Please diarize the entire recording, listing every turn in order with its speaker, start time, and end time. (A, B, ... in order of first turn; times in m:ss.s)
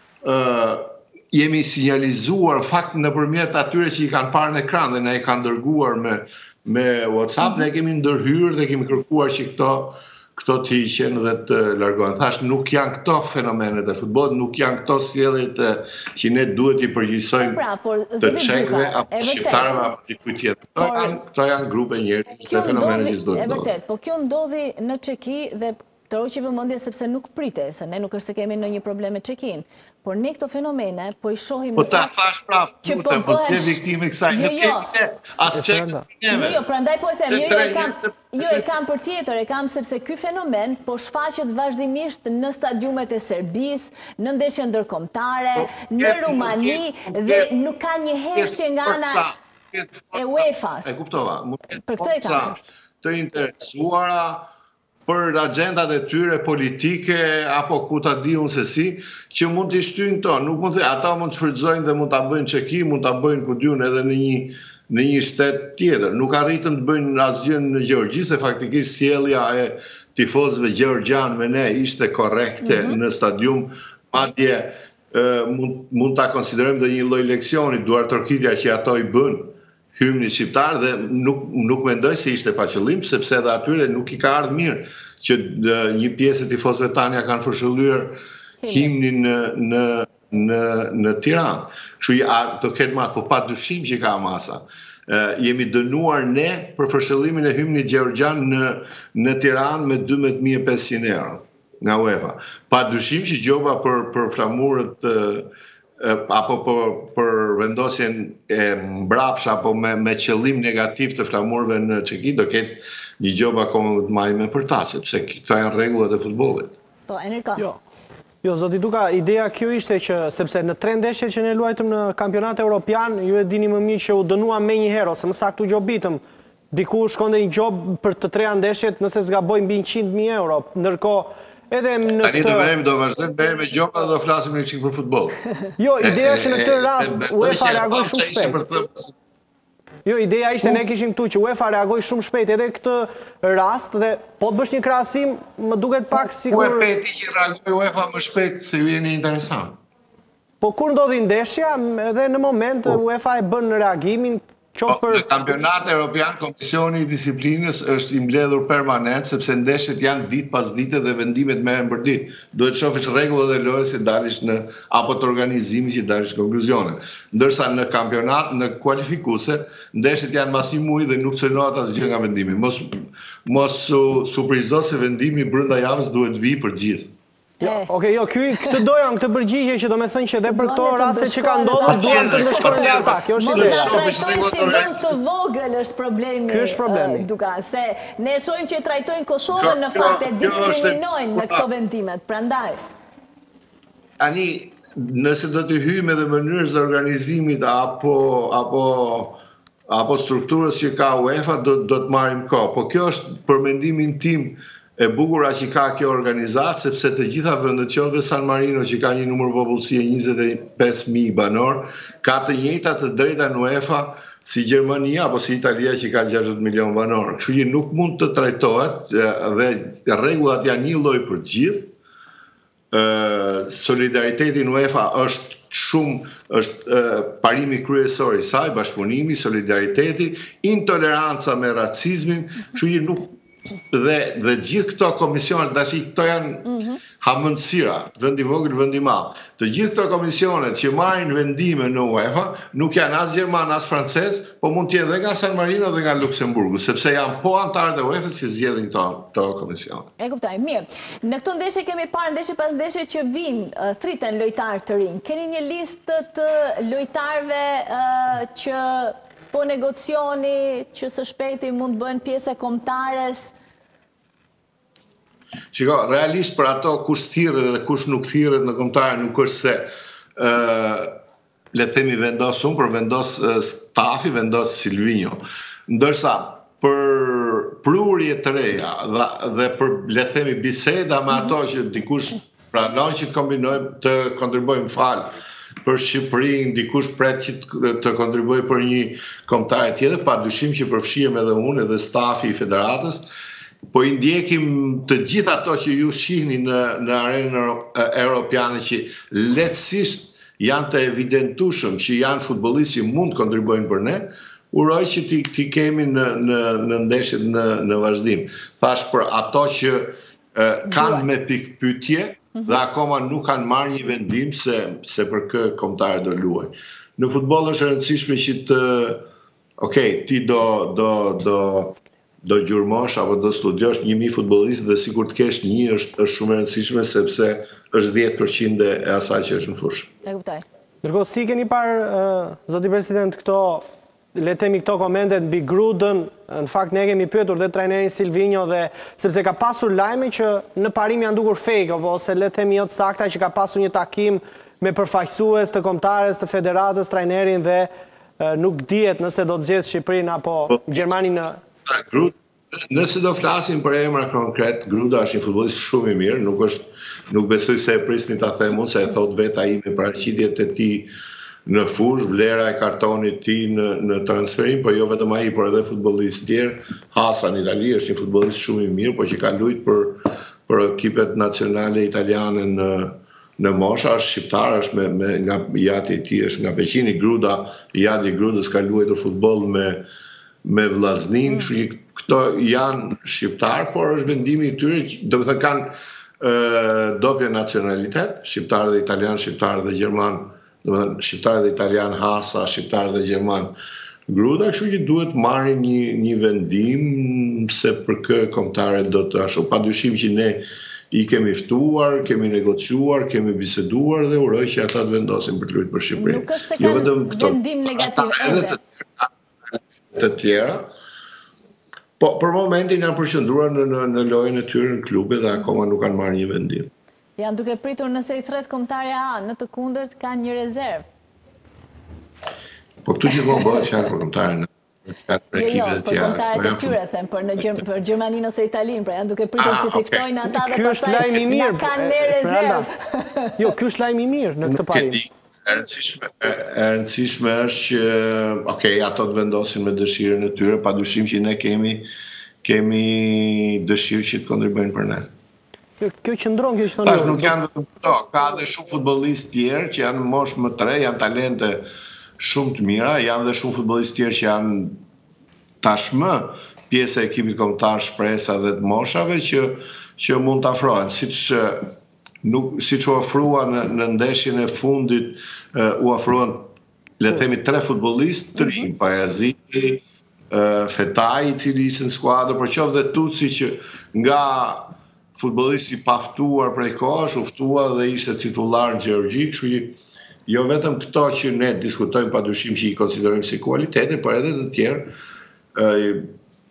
0:00.2-0:17.6 A
0:17.4-0:19.8 B
0:18.2-0:23.7 A
0:20.8-0:21.2 B
0:22.5-0:32.1 B
0:31.8-0:36.6 A
0:32.8-0:34.9 B
0:35.5-0:36.0 C
0:36.3-0:49.3 B
0:37.3-0:38.7 A
0:45.6-0:47.5 A
0:48.4-0:54.5 A
0:50.1-0:51.0 B
0:51.8-0:52.6 B
0:55.1-1:56.8 A
1:12.6-1:13.0 B
1:28.6-1:28.9 B
1:57.1-1:57.7 B
1:58.4-2:12.7 C
2:12.2-2:15.4 A
2:15.8-2:18.6 C
2:16.0-2:19.1 A
2:20.0-2:26.9 C
2:26.4-2:29.8 A
2:30.6-2:35.2 C
2:34.9-2:57.1 A
2:57.6-2:57.9 B
2:57.6-3:03.9 C
3:00.4-3:12.8 B
3:01.8-3:05.2 A
3:06.5-3:07.3 C
3:09.4-3:11.7 A
3:14.2-3:41.9 A
3:42.9-3:53.3 A
3:53.9-4:10.1 A
3:56.7-3:57.0 B
4:10.2-4:23.5 B
4:25.7-4:31.2 A
4:31.7-4:53.3 A
4:53.9-5:19.3 A
5:10.9-5:11.3 B
5:19.8-5:30.1 A
5:30.2-5:30.6 B
5:31.0-5:51.6 C
5:51.8-6:01.1 A
6:01.7-6:20.1 A
6:20.6-6:33.8 A
6:34.3-6:50.9 A
6:46.2-6:48.8 B
6:52.2-6:56.9 A
6:57.4-7:01.1 B
7:03.0-7:07.0 A
7:05.5-7:13.6 B
7:09.6-7:10.3 A
7:10.5-7:12.9 C
7:13.6-7:15.2 C
7:14.6-7:22.1 A
7:22.6-7:25.3 A
7:26.0-7:27.6 C
7:27.0-7:31.9 A
7:32.4-7:35.0 A
7:35.8-7:41.9 A
7:42.4-8:05.1 A
8:05.8-8:06.3 A